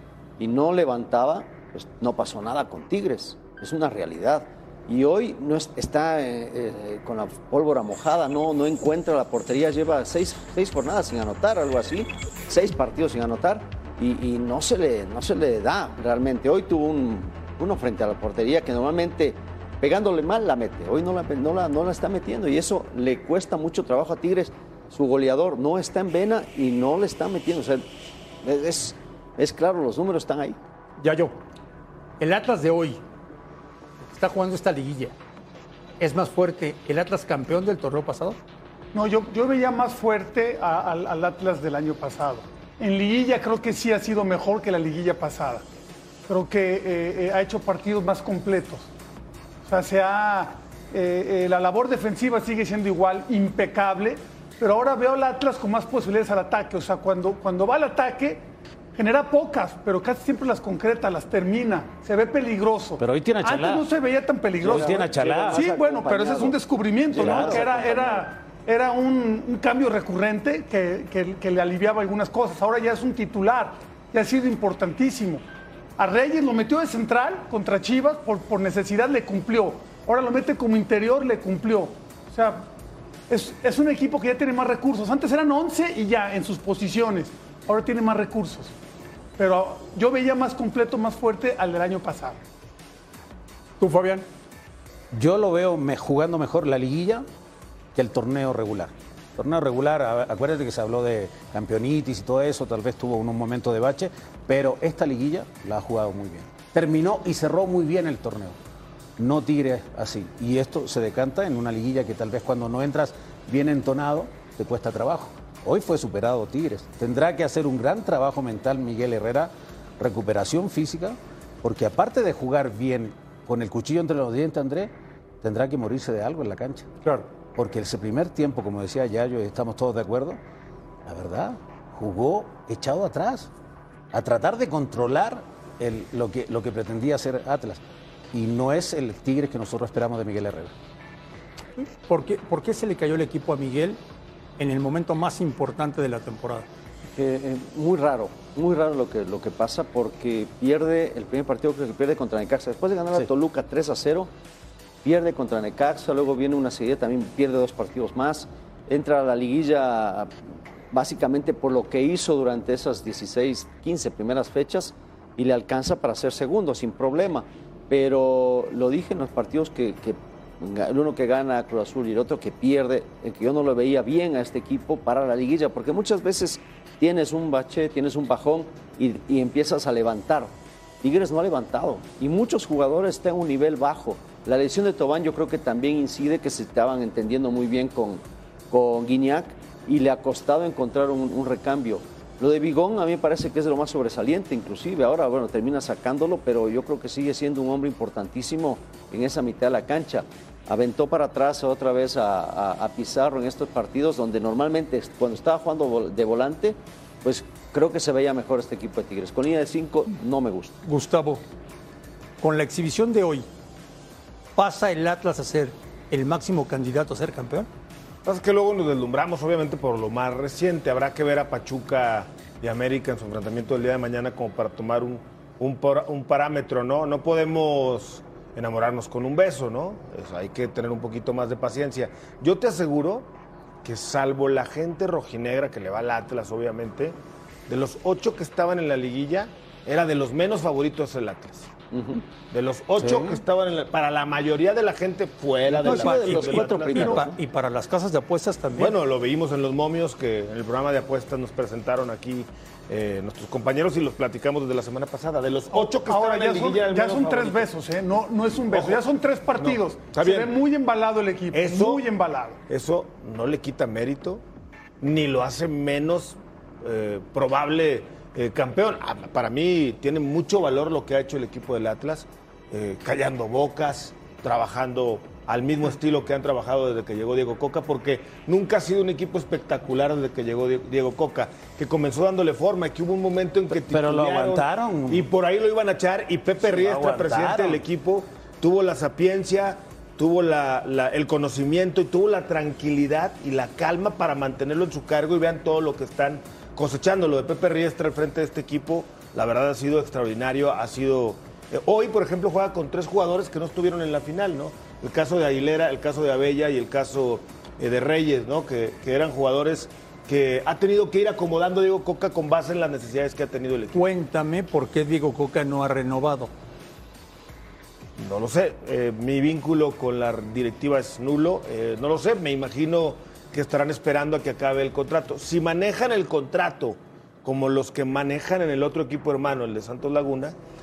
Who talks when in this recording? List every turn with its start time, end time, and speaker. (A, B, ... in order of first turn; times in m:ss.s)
0:00.4-0:27.8 A
0:28.4-0:30.6 A
0:31.0-0:31.4 B
0:32.2-0:33.0 B
0:34.0-0:35.2 B
0:36.0-0:38.4 B
0:38.9-0:45.6 C
0:46.3-0:48.9 C
0:49.6-0:58.4 C
0:58.9-1:15.4 C
1:03.0-1:03.9 D
1:04.6-1:05.6 D
1:04.6-1:06.6 A
1:07.1-1:08.3 A
1:07.2-1:07.6 D
1:16.0-1:22.7 C
1:23.3-1:28.7 C
1:29.4-1:32.4 C
1:33.8-1:34.2 B
1:35.1-1:37.2 D
1:37.9-1:48.6 D
1:49.2-2:06.9 D
2:07.5-2:10.4 D
2:11.0-2:13.5 D
2:14.1-2:20.7 D
2:21.8-2:24.0 B
2:24.6-2:26.7 B
2:27.1-2:34.3 A
2:35.0-2:40.3 A
2:40.9-3:30.8 A
3:30.8-3:31.4 B
3:32.4-3:33.5 B
3:34.6-3:37.7 B
3:38.2-3:53.3 E
3:53.8-3:57.2 E
3:57.7-4:01.7 E
4:01.9-4:02.2 A
4:02.5-4:07.2 E
4:03.0-4:03.4 D
4:05.8-4:07.2 A
4:05.8-4:08.9 B
4:08.8-4:17.7 E
4:15.7-4:22.6 C
4:18.7-4:19.0 E
4:19.6-4:20.6 E
4:21.5-4:22.1 E
4:22.7-4:24.4 E
4:25.0-5:14.0 E
4:43.7-4:45.3 D
4:46.6-4:47.8 D
5:13.9-5:16.5 B
5:18.2-5:30.6 E